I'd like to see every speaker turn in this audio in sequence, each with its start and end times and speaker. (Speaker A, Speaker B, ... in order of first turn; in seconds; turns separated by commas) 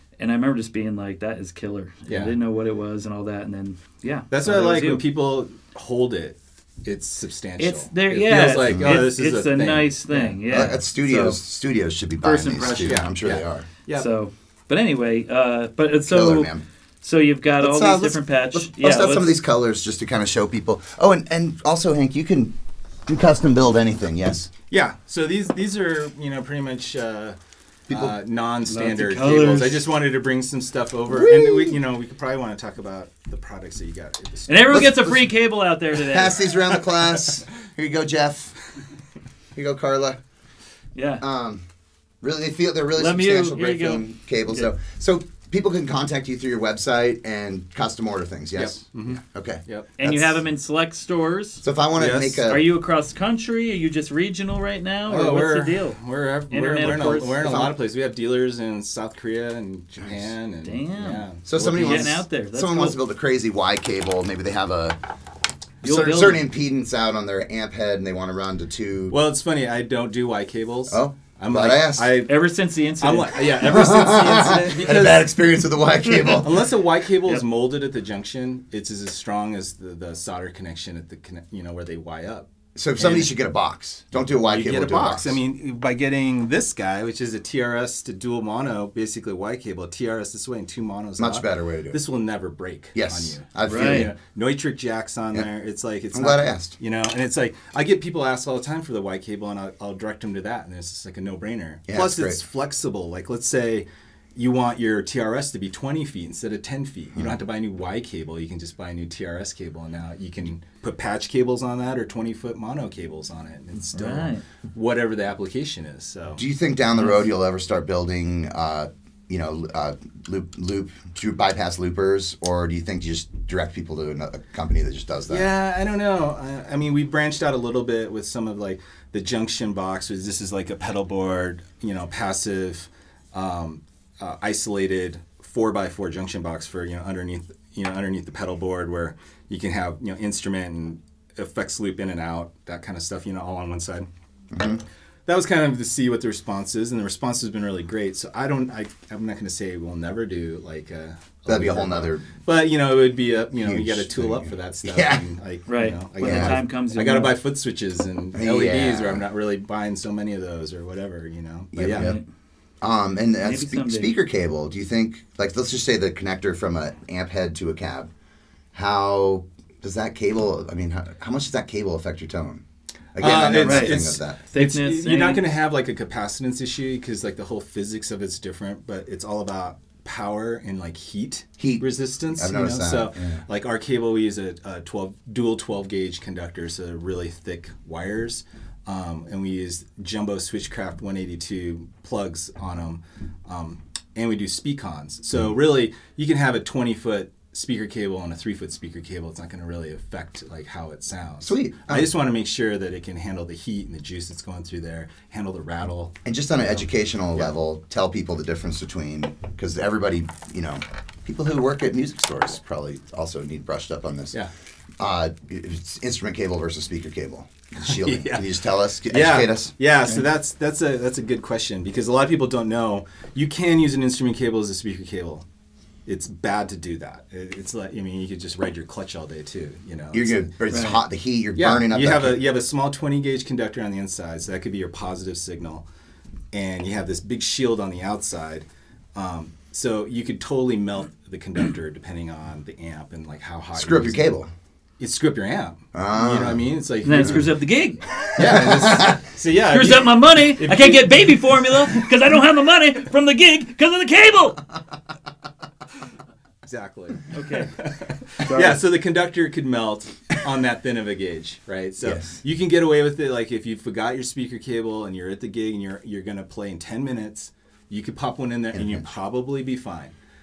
Speaker A: 0.2-5.0, Speaker B: 2.1-2.3, Speaker B: 4.3-11.3, Speaker A: 7.6-11.3, Speaker C: 8.6-9.0, Speaker C: 10.5-13.7, Speaker A: 12.2-13.1, Speaker B: 12.8-14.1, Speaker A: 13.9-16.5, Speaker C: 16.1-16.6, Speaker A: 17.0-19.3, Speaker C: 17.6-22.5, Speaker C: 23.1-24.5, Speaker B: 24.7-27.4, Speaker C: 27.9-28.1, Speaker B: 27.9-34.8, Speaker A: 28.7-29.8, Speaker C: 31.1-31.8, Speaker A: 34.5-36.5, Speaker C: 34.7-35.3, Speaker C: 36.0-38.5, Speaker B: 36.8-37.3, Speaker C: 39.5-40.2, Speaker A: 40.9-41.2, Speaker C: 41.2-41.6, Speaker C: 42.2-50.4, Speaker A: 43.0-44.7, Speaker B: 48.5-49.9, Speaker A: 50.0-51.6, Speaker C: 51.6-52.6, Speaker B: 52.0-52.4, Speaker A: 52.5-56.0, Speaker B: 55.1-62.2, Speaker A: 56.5-57.4, Speaker C: 57.1-57.7, Speaker A: 60.6-63.0, Speaker C: 61.5-65.0, Speaker C: 65.8-69.2, Speaker A: 65.8-66.4, Speaker B: 69.1-72.5, Speaker C: 70.9-72.2, Speaker A: 72.2-73.4, Speaker B: 73.0-75.3, Speaker C: 73.6-76.7, Speaker B: 76.2-82.5, Speaker C: 82.8-85.4, Speaker B: 83.0-83.3, Speaker B: 84.5-116.4, Speaker C: 91.2-92.0, Speaker C: 92.9-94.1, Speaker A: 93.6-94.1, Speaker C: 96.1-96.8, Speaker C: 101.9-102.4, Speaker A: 113.9-114.4, Speaker C: 116.4-125.5, Speaker B: 125.3-144.1, Speaker C: 144.5-144.8, Speaker B: 145.2-162.1, Speaker C: 151.5-152.3, Speaker C: 153.6-155.2, Speaker A: 155.7-157.3, Speaker C: 156.2-156.6, Speaker C: 158.3-159.2, Speaker C: 161.7-162.2, Speaker A: 161.9-162.2, Speaker C: 162.8-168.1, Speaker A: 163.4-164.1, Speaker C: 168.7-172.6, Speaker C: 173.1-174.4, Speaker B: 173.2-206.1, Speaker A: 173.6-175.4, Speaker C: 181.6-183.4, Speaker C: 201.4-202.1, Speaker C: 206.2-214.4, Speaker C: 215.0-219.7, Speaker B: 217.8-218.5, Speaker B: 219.1-225.4, Speaker B: 226.1-230.5, Speaker C: 230.1-232.4, Speaker A: 230.7-231.0, Speaker B: 231.5-235.8, Speaker B: 236.5-244.2, Speaker C: 243.8-244.5, Speaker B: 245.0-247.5, Speaker C: 245.9-246.6, Speaker A: 247.0-248.8, Speaker C: 247.2-247.4, Speaker B: 248.3-251.4, Speaker C: 248.4-249.2, Speaker A: 249.7-254.6, Speaker B: 256.6-270.1, Speaker A: 257.3-257.7, Speaker A: 258.4-258.8, Speaker C: 262.0-262.4, Speaker C: 268.7-269.0